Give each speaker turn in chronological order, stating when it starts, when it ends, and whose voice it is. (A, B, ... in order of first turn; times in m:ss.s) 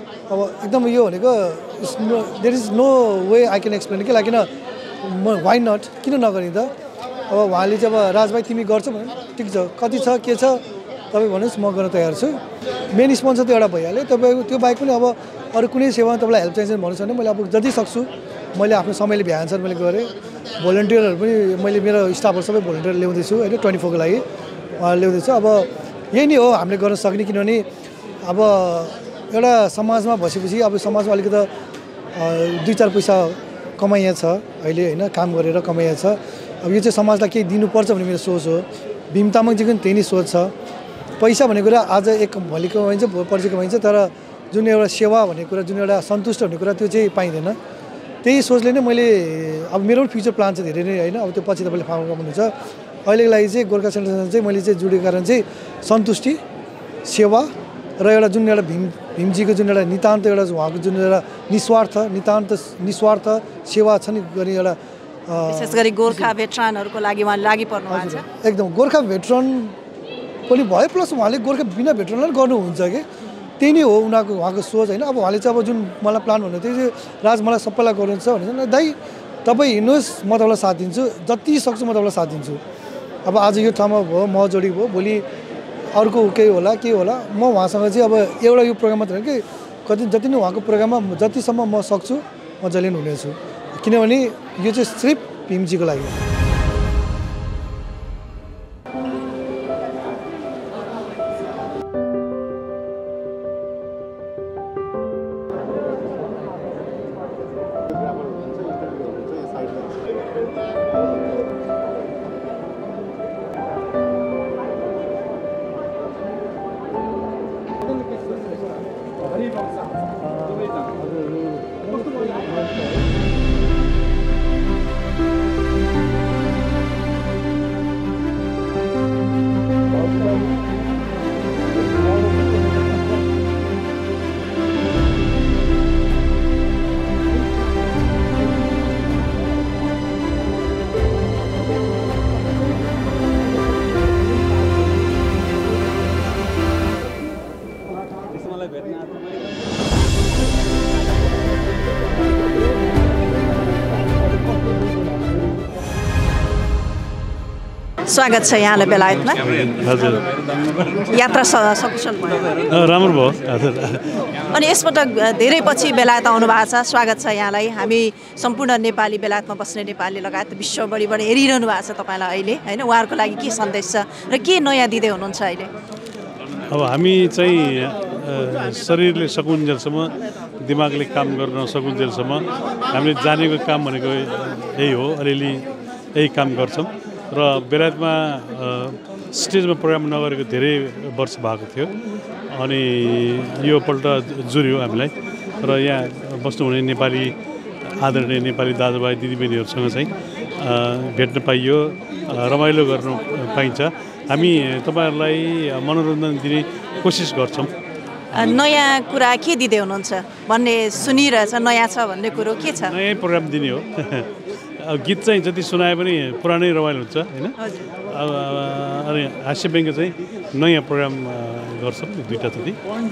0:00.3-0:04.5 A
0:05.0-0:06.7 A
0:07.3-0:12.4 A
0:12.9-0:24.2 A
0:24.8-0:27.6 A
0:28.2-0:31.5 A
0:32.1-0:40.5 A
0:41.2-0:47.6 A
0:48.2-0:52.5 A
0:53.0-0:56.4 A
0:57.0-1:06.3 A
1:05.5-1:08.2 B
1:07.9-1:09.7 A
1:10.5-1:13.0 A
1:13.6-1:22.6 A
1:23.2-1:25.2 A
1:25.9-1:36.2 A
2:38.0-2:39.8 B
2:39.8-2:40.2 C
2:40.9-2:42.6 B
2:42.7-2:44.2 C
2:44.4-2:55.7 B
2:56.6-3:11.9 C
3:12.5-3:17.4 C
3:17.9-3:27.7 C
3:28.3-3:33.0 B
3:32.9-3:37.6 C
3:37.6-3:37.9 B
3:38.1-3:42.8 C